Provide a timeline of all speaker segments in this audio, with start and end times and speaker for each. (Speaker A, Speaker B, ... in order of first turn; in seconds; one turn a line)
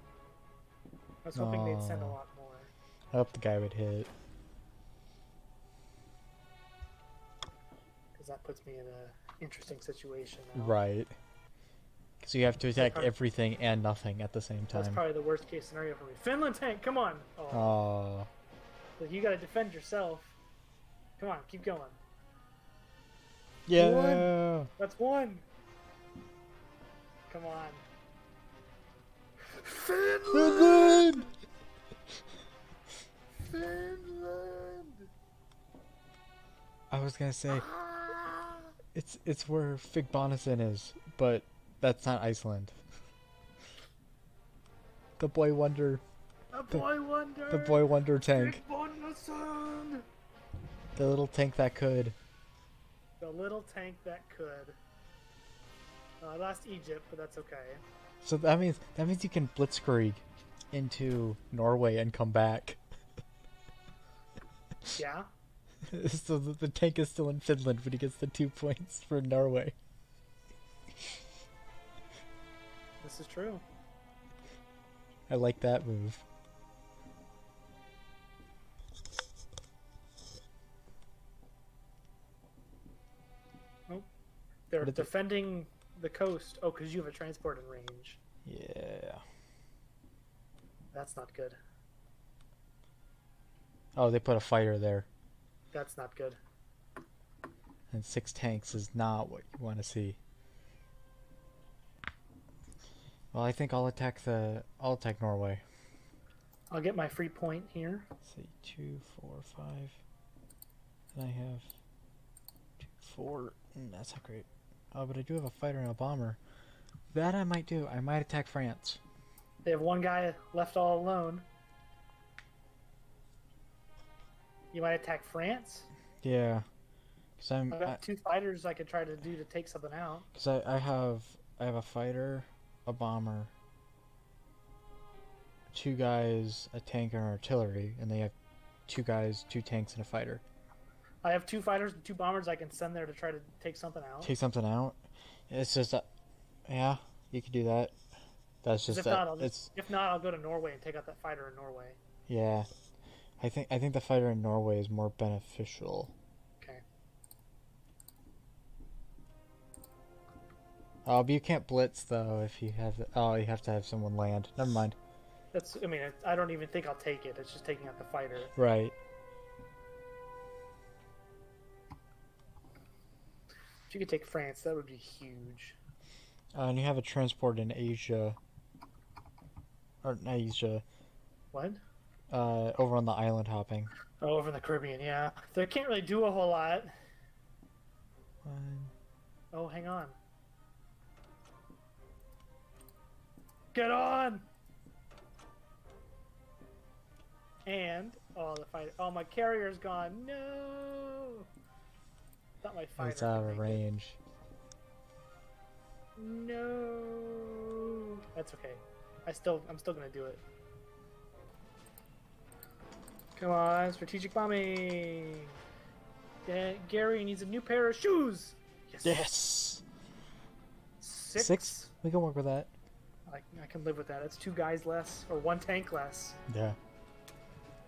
Speaker A: 1.2-2.7
Speaker B: 1.4-2.2
Speaker B: 3.1-4.1
Speaker A: 8.2-10.8
Speaker B: 10.6-11.2
Speaker B: 12.2-15.0
Speaker A: 12.8-13.1
Speaker A: 14.7-17.8
Speaker B: 17.5-18.3
Speaker A: 19.0-20.4
Speaker A: 21.2-22.0
Speaker B: 23.7-24.7
Speaker A: 23.8-25.4
Speaker A: 27.3-27.9
Speaker A: 29.5-31.2
Speaker B: 30.3-31.3
Speaker A: 33.4-35.1
Speaker B: 36.9-37.7
Speaker A: 37.5-38.7
Speaker B: 38.9-42.8
Speaker B: 45.2-46.0
Speaker A: 46.5-50.1
Speaker B: 47.5-48.6
Speaker B: 51.0-52.2
Speaker A: 53.2-54.8
Speaker A: 56.2-57.8
Speaker B: 58.2-62.8
Speaker A: 65.0-65.3
Speaker B: 65.9-69.8
Speaker A: 73.0-73.6
Speaker B: 75.3-76.2
Speaker A: 84.7-88.2
Speaker B: 84.8-85.1
Speaker B: 88.5-89.2
Speaker A: 90.9-91.6
Speaker B: 94.0-95.1
Speaker A: 95.7-96.4
Speaker B: 97.9-100.2
Speaker B: 103.3-105.6
Speaker A: 106.7-108.1
Speaker B: 108.2-110.0
Speaker B: 111.1-111.7
Speaker B: 112.8-116.4
Speaker B: 117.1-119.0
Speaker A: 119.6-121.5
Speaker A: 124.7-125.9
Speaker B: 126.2-126.7
Speaker B: 127.4-128.0
Speaker A: 127.7-130.3
Speaker B: 130.3-133.5
Speaker B: 135.7-138.3
Speaker B: 138.9-140.4
Speaker A: 141.2-144.3
Speaker B: 144.2-145.0
Speaker B: 145.5-146.1
Speaker B: 146.7-148.0
Speaker B: 148.6-149.7
Speaker A: 148.9-152.0
Speaker B: 152.3-152.7
Speaker B: 153.4-156.1
Speaker B: 161.1-165.0
Speaker A: 165.5-168.5
Speaker B: 168.6-168.9
Speaker A: 173.9-175.8
Speaker B: 176.5-178.4
Speaker B: 180.0-180.8
Speaker A: 181.5-181.8
Speaker B: 182.3-183.9
Speaker A: 184.2-186.9
Speaker B: 188.4-188.9
Speaker A: 189.5-190.2
Speaker A: 193.7-194.5
Speaker A: 197.7-201.4
Speaker A: 202.6-203.8
Speaker B: 203.0-204.2
Speaker A: 206.2-210.4
Speaker A: 213.4-215.6
Speaker A: 216.5-219.2
Speaker B: 219.0-219.8
Speaker A: 221.0-221.9
Speaker B: 221.4-222.7
Speaker A: 223.3-226.4
Speaker B: 226.5-226.8